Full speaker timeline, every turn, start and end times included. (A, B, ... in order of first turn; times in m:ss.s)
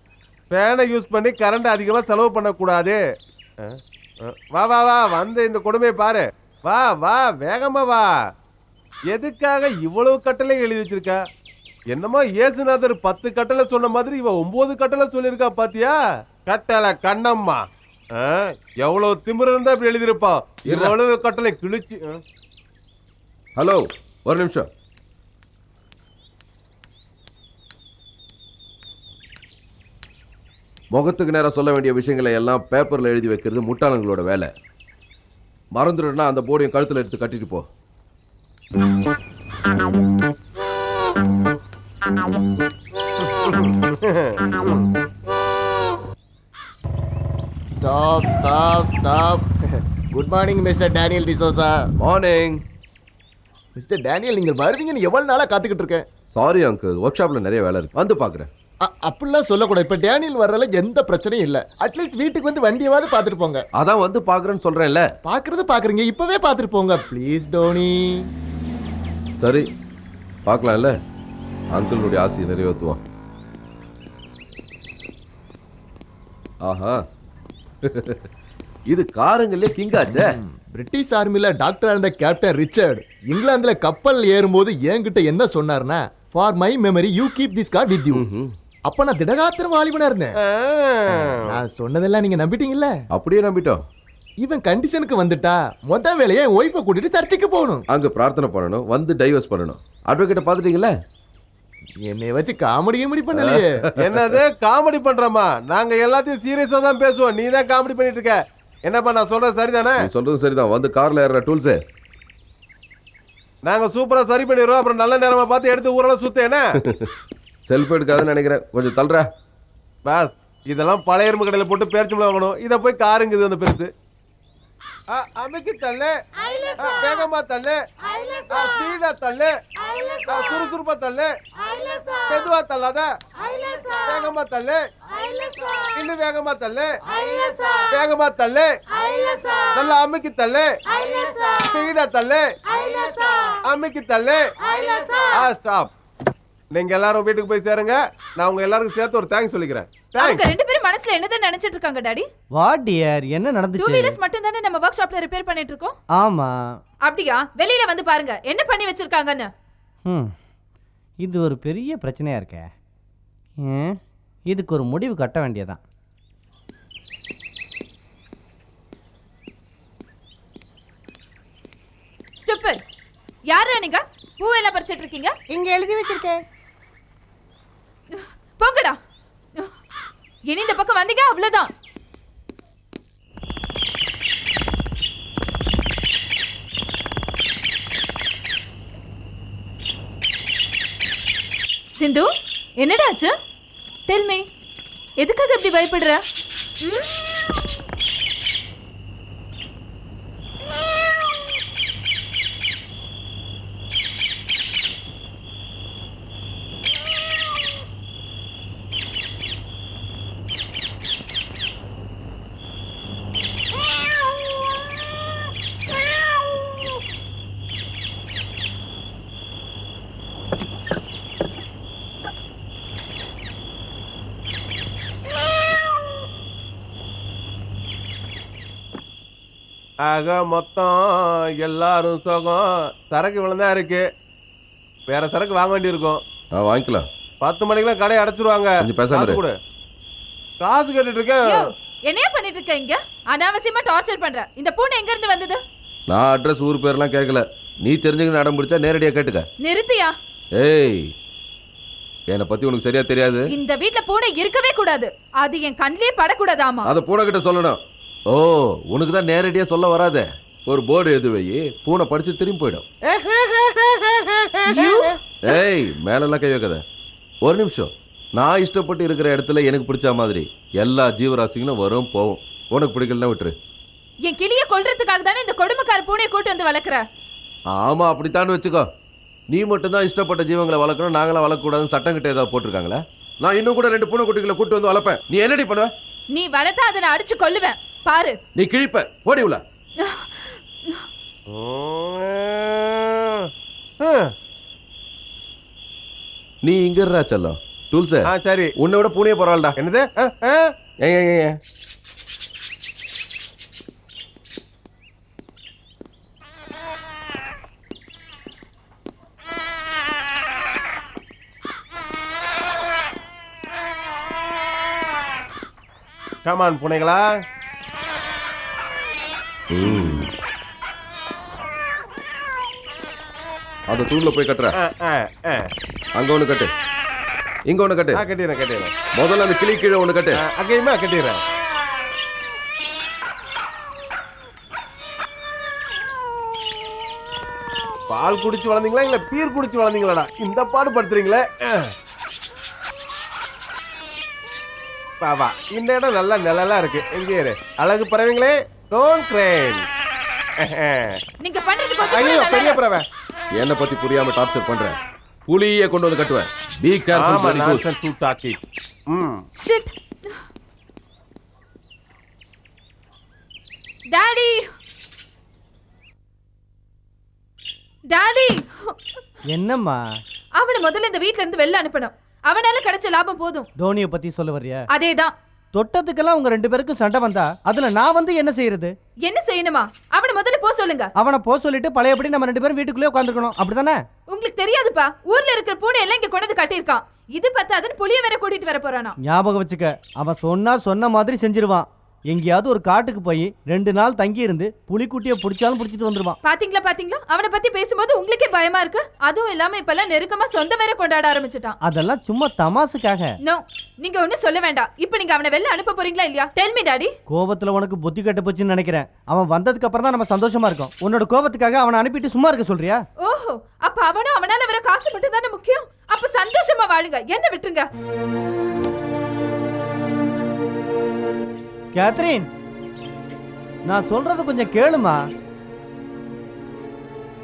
0:00.5-0:03.0 A
0:03.6-0:08.1 A
0:09.1-0:11.2 A
0:11.9-0:17.6 A
0:18.1-0:22.2 A
0:20.7-0:21.0 B
0:23.6-0:24.7 B
0:30.9-0:34.5 B
0:35.7-0:37.7 B
0:43.4-0:44.9 A
0:47.8-0:49.6 C
0:50.1-0:51.9 C
0:52.0-0:52.6 B
0:53.8-0:56.0 C
0:56.3-0:58.5 B
0:58.8-1:03.7 C
1:03.8-1:05.0 B
1:05.2-1:08.3 C
1:09.4-1:09.6 B
1:10.5-1:10.9 B
1:11.7-1:13.0 B
1:16.6-1:17.0 B
1:17.9-1:18.2 B
1:18.9-1:20.4 B
1:20.0-1:28.2 C
1:28.1-1:28.5 B
1:28.9-1:30.3 C
1:30.5-1:31.4 A
1:31.4-1:32.9 C
1:33.1-1:33.8 B
1:34.4-1:37.8 C
1:37.9-1:40.9 B
1:42.0-1:43.8 C
1:43.4-1:44.4 B
1:44.0-1:50.1 A
1:50.0-1:51.8 B
1:53.6-1:56.6 A
1:57.7-1:59.3 B
2:00.0-2:03.9 A
2:05.1-2:06.2 A
2:06.8-2:07.9 A
2:08.4-2:09.6 A
2:10.2-2:11.4 A
2:12.3-2:13.1 A
2:13.9-2:14.9 A
2:15.8-2:17.0 A
2:17.7-2:18.8 A
2:19.7-2:25.9 A
2:26.7-2:30.4 A
2:30.2-2:32.3 D
2:32.5-2:34.2 E
2:33.8-2:36.0 D
2:36.2-2:36.6 E
2:37.0-2:39.5 D
2:40.1-2:40.3 E
2:41.2-2:42.7 E
2:43.6-2:44.0 E
2:44.5-2:45.8 E
2:52.4-2:52.8 D
2:53.5-2:55.3 D
2:55.5-2:56.4 E
2:58.2-2:59.0 D
3:00.5-3:01.7 D
3:12.0-3:12.3 D
3:12.8-3:13.3 D
3:14.1-3:14.4 D
3:15.2-3:16.2 D
3:50.0-3:54.1 A
3:55.1-3:56.2 A
3:56.6-3:57.1 B
3:57.4-3:59.5 A
3:58.8-3:59.4 B
4:00.6-4:01.7 A
4:01.4-4:05.6 D
4:06.1-4:09.5 B
4:09.6-4:10.1 D
4:10.6-4:11.1 B
4:12.3-4:13.5 B
4:13.5-4:16.9 D
4:16.9-4:17.8 B
4:18.3-4:22.9 B
4:23.1-4:25.0 A
4:24.7-4:25.6 D
4:25.4-4:26.8 B
4:27.4-4:33.5 B
4:34.2-4:37.0 D
4:37.7-4:38.8 B
4:39.5-4:45.9 B
4:46.3-4:48.4 D
4:48.6-4:49.6 B
4:50.0-4:51.0 D
4:51.5-4:54.3 A
4:56.6-4:59.8 B
4:58.2-4:58.7 A
4:59.8-5:00.7 A
5:01.0-5:01.6 B
5:16.4-5:17.3 A
5:19.7-5:20.3 B
5:23.9-5:24.7 B
5:24.8-5:25.7 A
5:26.2-5:26.7 B
5:27.7-5:28.2 B
5:28.2-5:29.0 A
5:29.1-5:30.4 B
5:30.4-5:31.4 A
5:38.1-5:41.9 A
5:45.2-5:49.8 A
5:50.6-5:51.2 A
5:51.4-5:52.8 D
5:52.1-5:53.1 A
5:53.6-5:57.9 B
5:57.1-5:59.4 A
5:59.6-5:59.9 D
6:04.1-6:04.6 D
6:08.1-6:09.0 D
6:09.5-6:10.0 E
6:10.6-6:13.7 D
6:13.8-6:14.8 E
6:14.9-6:15.3 D
6:15.7-6:18.9 E
6:19.2-6:21.1 D
6:21.2-6:24.0 E
6:24.3-6:29.2 D
6:29.2-6:36.4 E
6:36.4-6:41.8 D
6:41.8-6:43.3 E
6:43.4-6:47.1 D
6:47.3-6:53.0 E
6:53.2-6:57.9 D
7:02.0-7:02.5 E
7:03.9-7:05.2 E